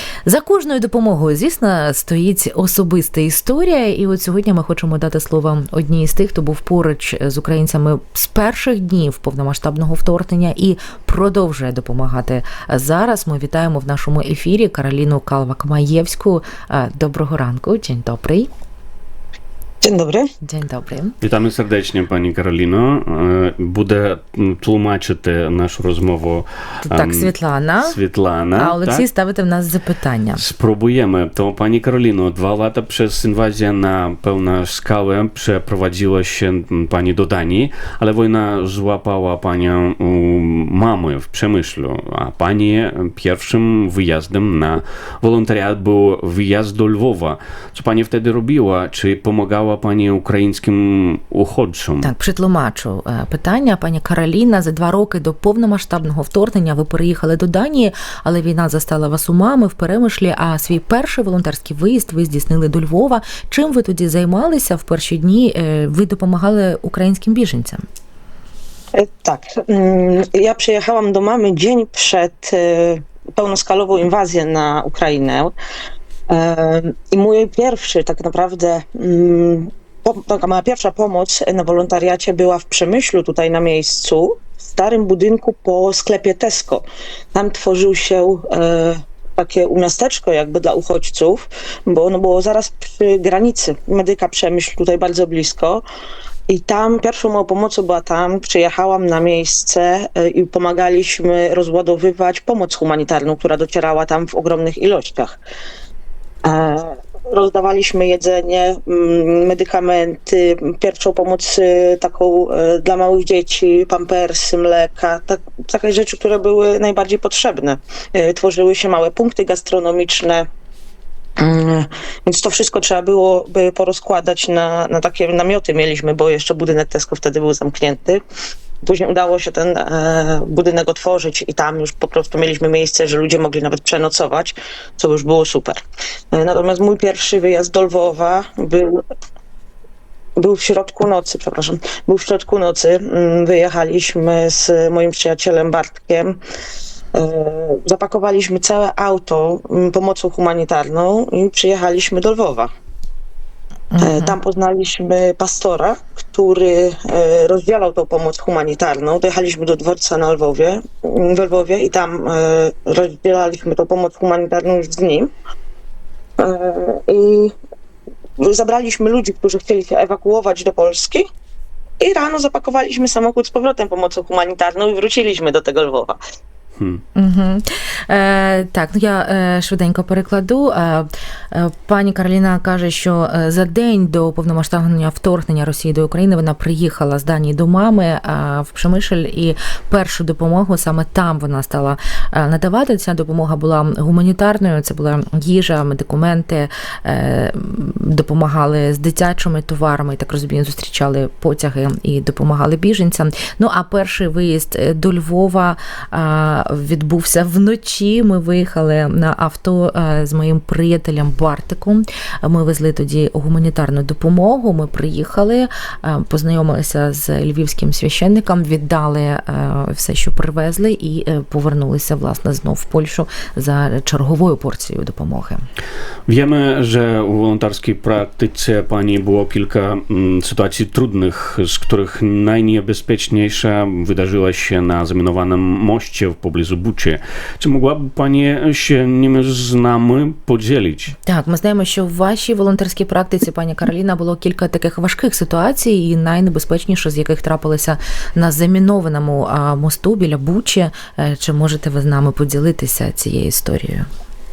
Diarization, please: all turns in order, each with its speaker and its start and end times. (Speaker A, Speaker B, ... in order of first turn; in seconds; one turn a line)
Speaker A: 0.2-18.5
Speaker B: 19.8-20.3
Speaker A: 20.4-21.2
Speaker C: 21.2-29.1
Speaker A: 26.9-28.0
Speaker A: 28.6-30.4
Speaker C: 30.4-52.1
Speaker A: 52.0-67.8
Speaker B: 68.9-75.5
Speaker B: 76.3-95.8
Speaker B: 96.5-105.4
Speaker B: 106.4-120.5
Speaker B: 121.4-128.2
Speaker B: 128.8-135.8
Speaker B: 136.3-139.0
Speaker B: 140.4-146.4
Speaker B: 147.1-152.7
Speaker A: 153.9-154.4
Speaker B: 154.0-165.3
Speaker B: 166.4-167.5
Speaker B: 168.4-171.3
Speaker B: 172.0-176.2
Speaker A: 177.2-225.6
Speaker C: 226.3-241.1
Speaker A: 241.3-254.1